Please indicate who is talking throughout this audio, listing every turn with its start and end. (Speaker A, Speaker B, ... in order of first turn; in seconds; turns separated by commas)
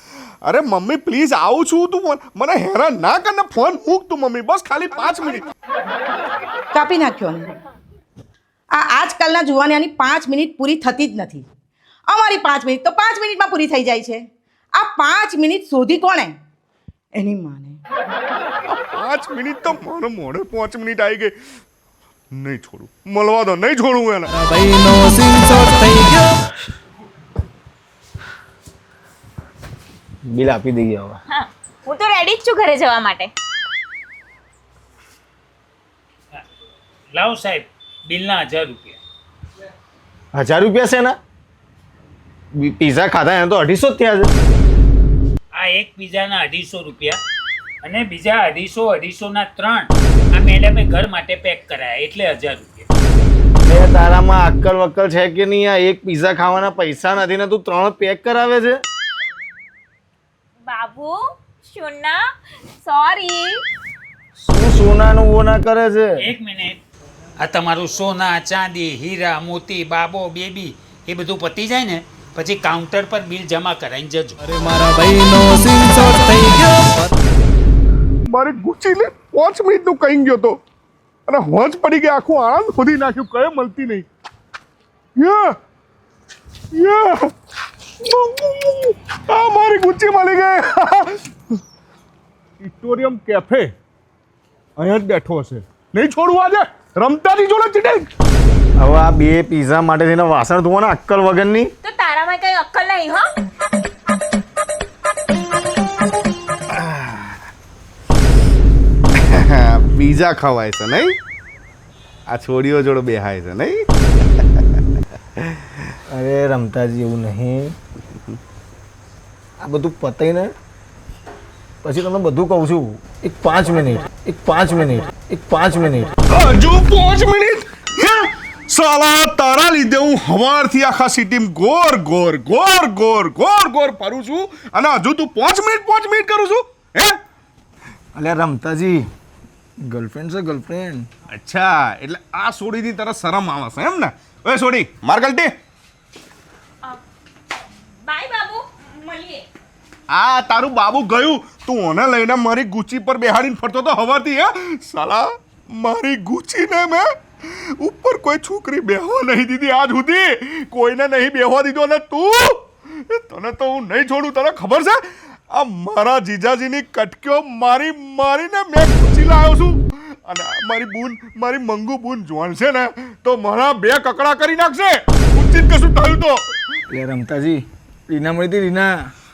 Speaker A: 0.4-5.4, Speaker B: 6.7-7.5, Speaker B: 8.7-11.4, Speaker B: 12.1-16.4, Speaker B: 17.1-17.8, Speaker A: 18.7-21.3, Speaker A: 22.3-24.3, Speaker C: 24.3-26.4, Speaker D: 30.3-31.2, Speaker E: 31.3-33.3, Speaker F: 37.1-39.0, Speaker D: 40.3-41.2, Speaker D: 42.5-44.3, Speaker F: 45.6-47.2, Speaker F: 47.8-52.9, Speaker D: 53.6-58.8, Speaker E: 60.6-62.2, Speaker E: 62.8-63.6, Speaker D: 64.4-66.3, Speaker F: 66.2-66.8, Speaker F: 67.4-74.4, Speaker C: 74.4-77.2, Speaker A: 78.3-80.6, Speaker A: 81.3-84.1, Speaker A: 85.2-85.6, Speaker A: 86.7-87.3, Speaker A: 88.0-91.6, Speaker A: 92.6-93.7, Speaker A: 94.8-98.1, Speaker D: 98.8-101.7, Speaker E: 101.8-103.3, Speaker A: 106.7-107.3, Speaker A: 109.1-111.2, Speaker A: 112.3-114.6, Speaker A: 115.4-115.9, Speaker D: 116.1-117.8, Speaker D: 119.6-120.5, Speaker D: 121.8-126.1, Speaker A: 126.3-137.2, Speaker D: 138.1-139.1, Speaker D: 139.8-141.1, Speaker A: 141.3-145.5, Speaker E: 148.1-149.4, Speaker A: 150.1-176.5, Speaker D: 176.9-179.1